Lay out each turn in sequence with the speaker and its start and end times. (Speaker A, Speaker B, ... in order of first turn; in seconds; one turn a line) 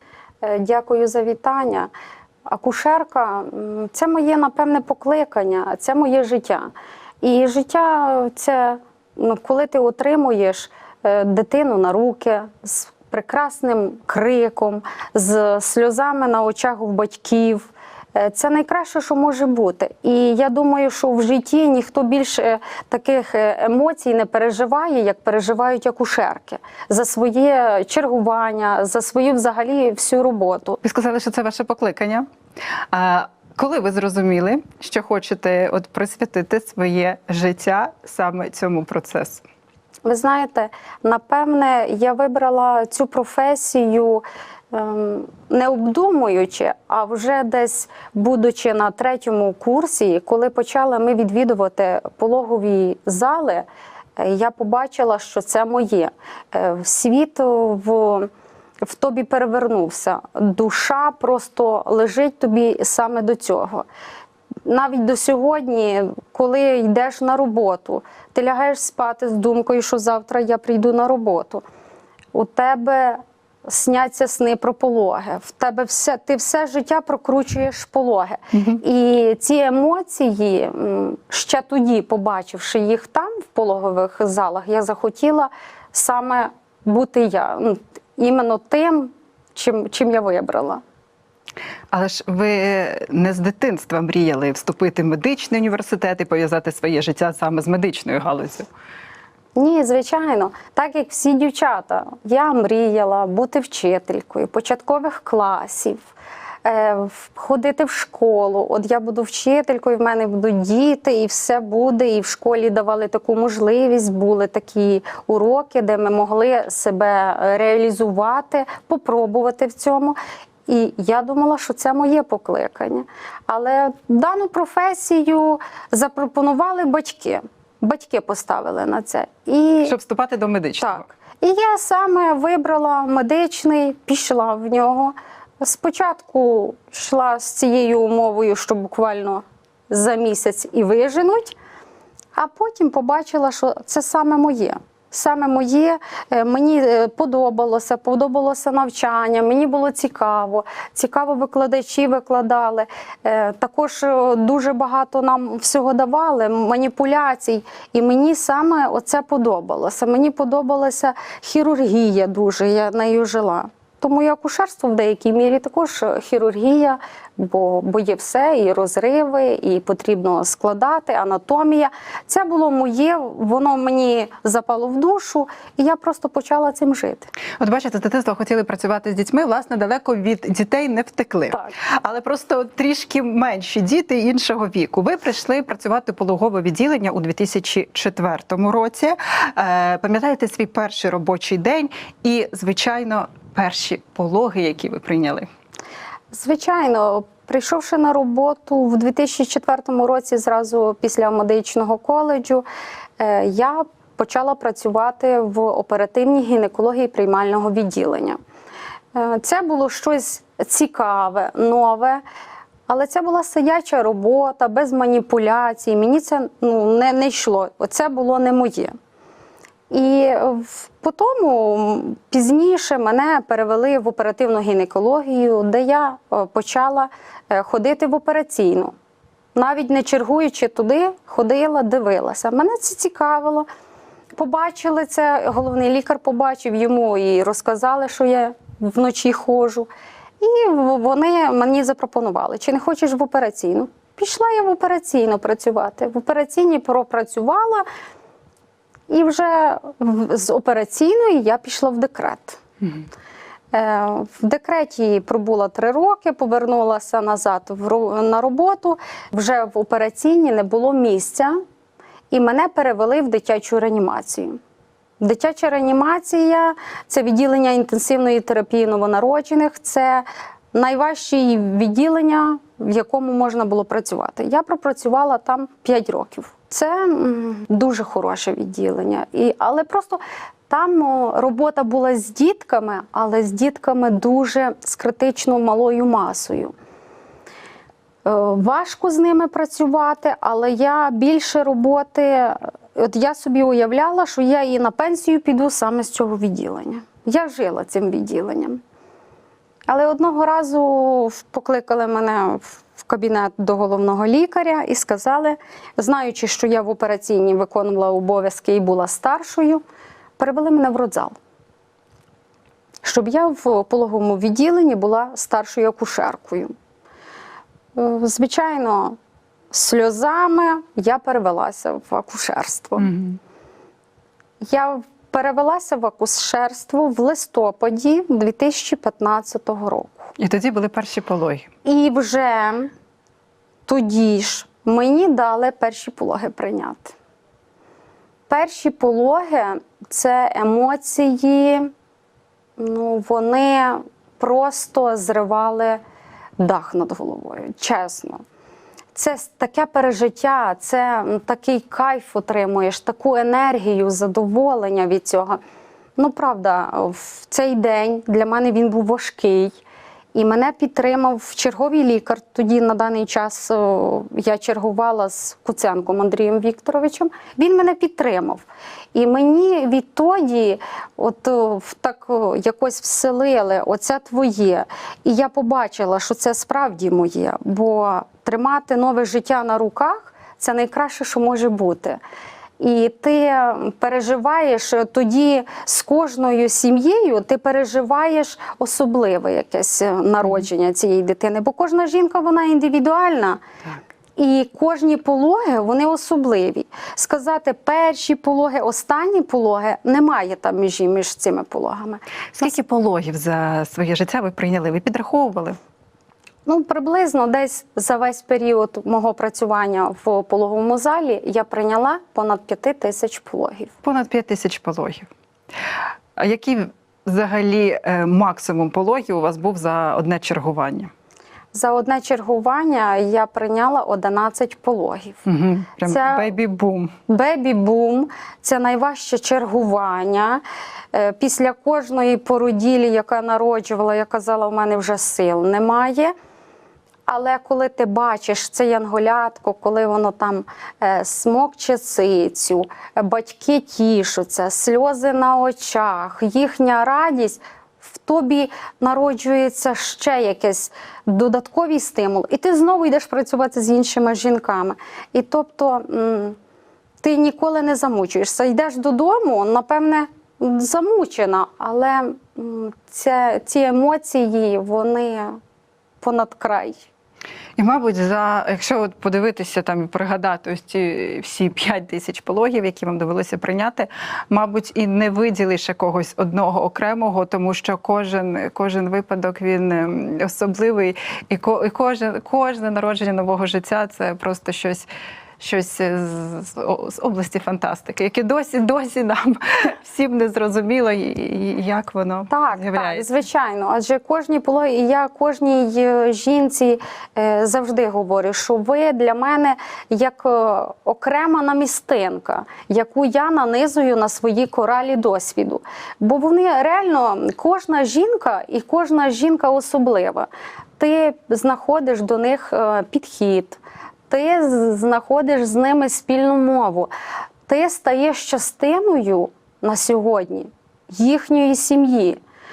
Speaker A: 0.4-1.9
Speaker A: 2.5-30.8
Speaker B: 30.8-32.3
Speaker B: 32.9-39.4
Speaker A: 40.0-53.7
Speaker A: 54.2-58.3
Speaker A: 58.8-63.9
Speaker A: 64.7-71.6
Speaker A: 72.3-90.8
Speaker B: 78.5-78.8
Speaker B: 91.9-98.7
Speaker A: 99.6-106.1
Speaker A: 106.7-130.0
Speaker B: 129.8-131.1
Speaker A: 130.8-141.6
Speaker A: 142.3-177.3
Speaker B: 177.6-195.5
Speaker A: 196.3-202.7
Speaker A: 203.2-208.4
Speaker A: 209.1-212.2
Speaker A: 212.9-218.9
Speaker A: 219.9-228.9
Speaker A: 229.6-233.7
Speaker A: 234.4-239.9
Speaker A: 240.4-247.8
Speaker A: 249.1-252.6
Speaker A: 253.7-261.6
Speaker A: 262.3-264.6
Speaker A: 265.2-286.7
Speaker A: 288.2-298.8
Speaker A: 299.9-309.8
Speaker A: 310.4-311.4
Speaker A: 313.0-316.7
Speaker A: 317.9-319.2
Speaker A: 319.7-323.1
Speaker B: 323.0-323.4
Speaker A: 324.7-330.3
Speaker B: 330.4-331.7
Speaker A: 331.9-332.9
Speaker A: 333.9-337.1
Speaker A: 338.5-341.9
Speaker A: 342.8-346.0
Speaker A: 346.6-348.4
Speaker A: 349.1-355.6
Speaker A: 356.2-359.8
Speaker A: 360.4-382.2
Speaker A: 382.8-393.6
Speaker A: 394.4-402.7
Speaker B: 402.5-405.8
Speaker A: 406.7-413.9
Speaker B: 414.0-415.3
Speaker B: 416.4-421.1
Speaker A: 421.7-425.4
Speaker B: 425.5-427.1
Speaker A: 426.0-426.6
Speaker A: 427.3-430.6
Speaker A: 431.1-436.3
Speaker A: 437.3-456.6
Speaker A: 457.2-465.6
Speaker A: 466.2-467.1
Speaker B: 467.8-485.1
Speaker B: 485.6-493.3
Speaker A: 492.5-517.1
Speaker A: 517.7-522.4